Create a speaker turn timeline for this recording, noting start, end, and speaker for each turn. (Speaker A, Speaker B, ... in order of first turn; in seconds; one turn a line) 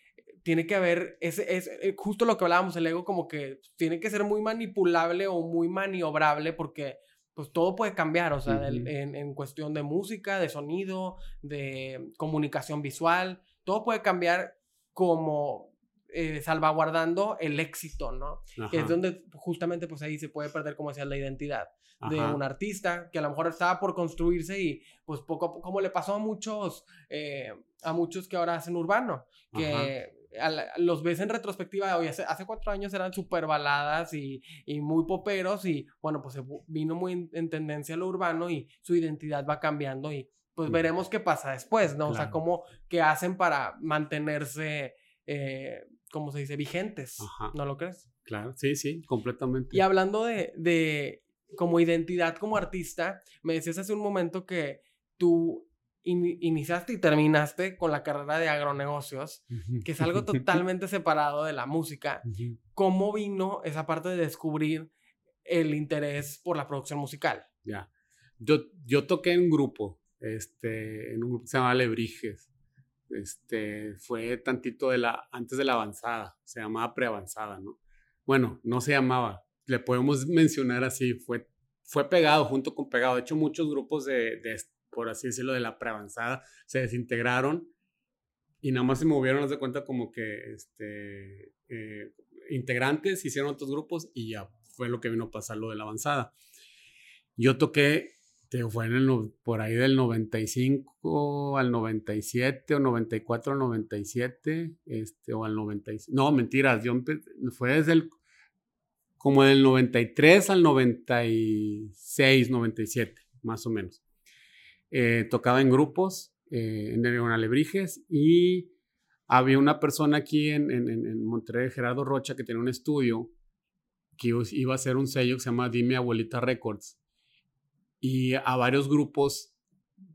Speaker A: 0.4-48.1
Speaker B: 8.5-8.9
Speaker B: 18.6-18.9
Speaker B: 22.0-22.4
Speaker B: 29.5-29.9
Speaker B: 42.0-42.4
Speaker B: 47.2-47.5
Speaker B: 48.2-49.8
Speaker A: 49.7-64.9
Speaker B: 59.5-60.5
Speaker B: 62.2-62.6
Speaker A: 65.4-67.5
Speaker B: 68.4-72.5
Speaker B: 73.1-87.7
Speaker B: 88.6-96.3
Speaker B: 97.4-108.1
Speaker B: 109.2-114.0
Speaker B: 114.9-118.7
Speaker B: 119.3-123.3
Speaker B: 124.2-127.0
Speaker B: 128.0-129.5